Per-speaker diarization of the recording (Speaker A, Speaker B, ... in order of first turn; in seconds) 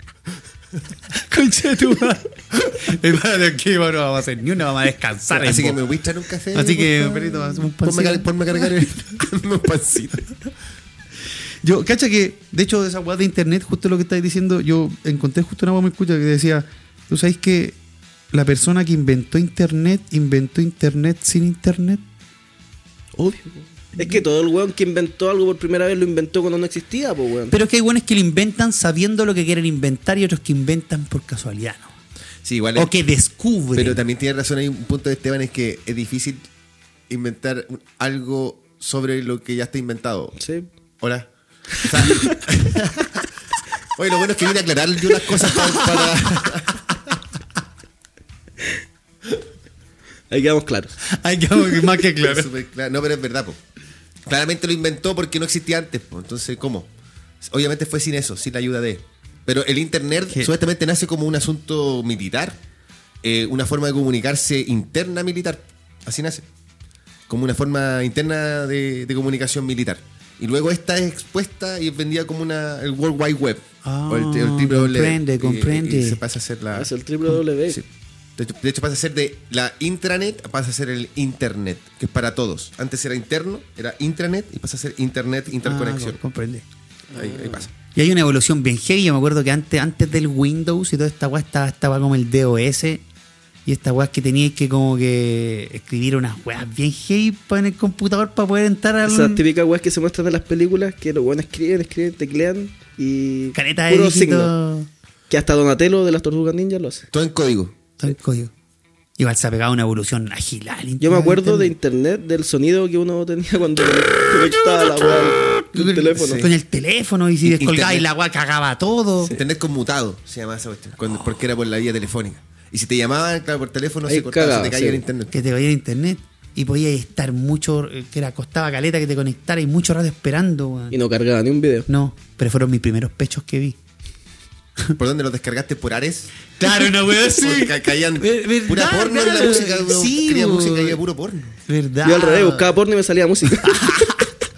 Speaker A: 1.1-5.8, 6.5-8.7, 11.6-17.8, 18.3-22.0, 27.5-31.9, 32.8-34.0, 45.4-46.2, 51.1-52.5, 73.8-76.2, 85.6-86.6, 87.9-93.0, 93.7-99.4, 103.5-104.9, 108.0-108.5, 109.2-111.7, 115.7-119.3, 125.3-131.0, 131.9-133.8, 136.6-141.0, 141.7-142.7, 143.6-144.3
Speaker B: 5.3-10.5, 32.4-32.9, 33.7-36.4, 37.1-40.4, 41.0-43.3, 44.0-47.0, 52.2-53.6, 54.3-56.9, 57.4-62.6, 63.2-66.5, 67.3-76.9, 78.4-86.2, 87.1-87.7, 107.1-107.8, 116.2-116.5, 117.4-118.0, 119.3-125.3, 135.0-136.3, 137.3-141.6
Speaker C: 23.2-27.5, 40.4-40.6, 50.3-51.0, 76.7-77.8, 87.1-87.6, 99.0-104.5, 105.3-107.0, 111.0-116.5, 124.0-125.0, 130.9-131.9, 142.0-143.7